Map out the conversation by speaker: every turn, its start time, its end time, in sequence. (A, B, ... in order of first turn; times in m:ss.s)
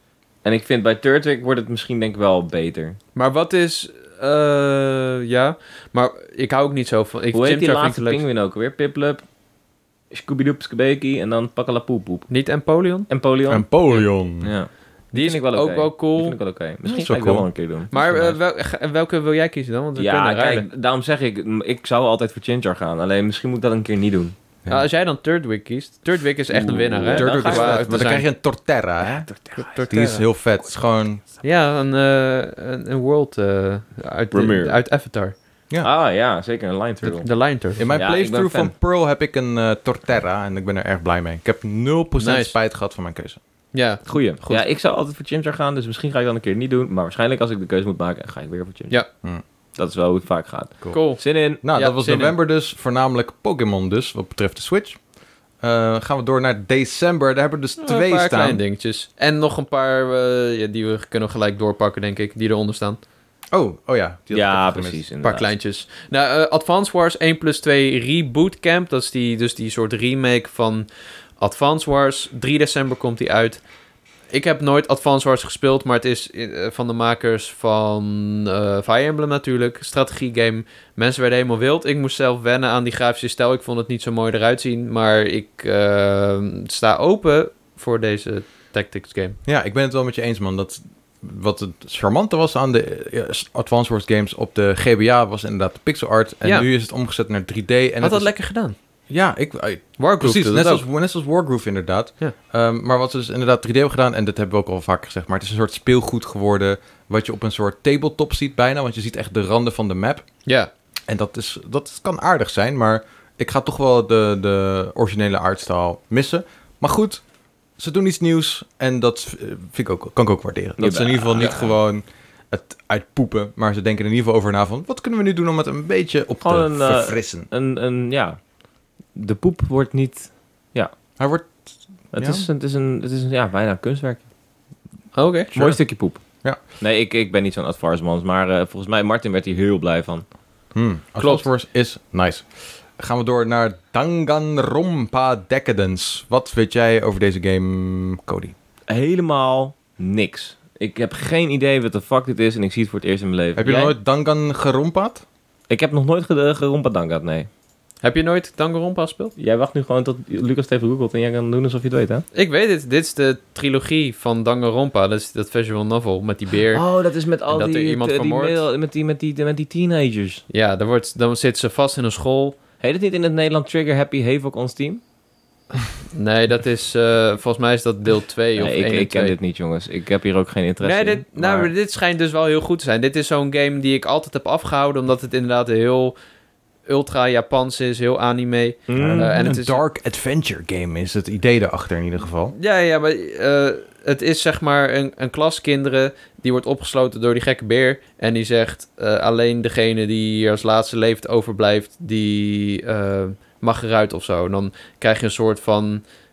0:00.4-0:03.0 A
0:03.2-0:08.2 B
0:07.3-0:09.2 A
0:10.1-0:12.3 A
0:12.3-0:13.1 B
0:13.1-0:18.3 A
0:13.5-0:14.5 C
0:15.1-0:16.4 B
0:16.8-0:18.3 C
0:17.9-0:20.7 B
0:20.0-0:24.4 A
0:24.7-0:28.3 B
0:26.5-0:28.0 A
0:27.1-0:29.3 C
0:29.0-0:29.8 A
0:29.6-0:30.2 B
0:29.9-0:31.2 C
0:31.4-0:35.4 B
0:34.3-0:34.8 A
0:35.8-0:37.4 A
0:37.2-0:37.9 B
0:37.8-0:43.4 C
0:37.9-0:38.7 A
0:42.2-0:42.6 B
0:43.7-0:44.7 B
0:44.1-0:49.0 A
0:49.8-0:51.6 A
0:50.8-0:55.0 C
0:50.9-0:52.4 B
0:55.6-0:58.6 C
0:57.8-1:03.0 B
1:03.5-1:05.1 C
1:04.3-1:05.5 A
1:05.2-1:13.6 B
1:14.3-1:29.4 B
1:29.4-1:38.3 C
1:38.0-1:38.8 B
1:39.1-1:50.2 C
1:40.0-1:40.8 B
1:51.1-1:57.2 C
1:57.8-2:07.5 C
2:00.8-2:01.7 A
2:06.4-2:08.4 A
2:09.2-2:10.9 A
2:11.2-2:12.5 C
2:12.1-2:14.2 A
2:15.2-2:15.5 B
2:15.5-2:15.8 C
2:15.6-2:20.2 A
2:20.7-2:28.5 C
2:21.2-2:21.5 B
2:28.9-2:33.7 A
2:33.6-2:35.2 C
2:33.7-2:33.9 B
2:35.7-2:37.5 A
2:38.0-2:39.3 B
2:39.4-2:42.2 A
2:42.3-2:46.8 B
2:46.7-2:50.4 A
2:47.5-2:48.6 B
2:50.5-2:52.6 B
2:52.8-2:55.0 A
2:56.1-2:59.4 B
2:58.6-3:01.7 A
3:00.8-3:06.2 B
3:06.9-3:09.8 B
3:08.9-3:09.3 A
3:09.0-3:12.5 C
3:12.5-3:26.0 B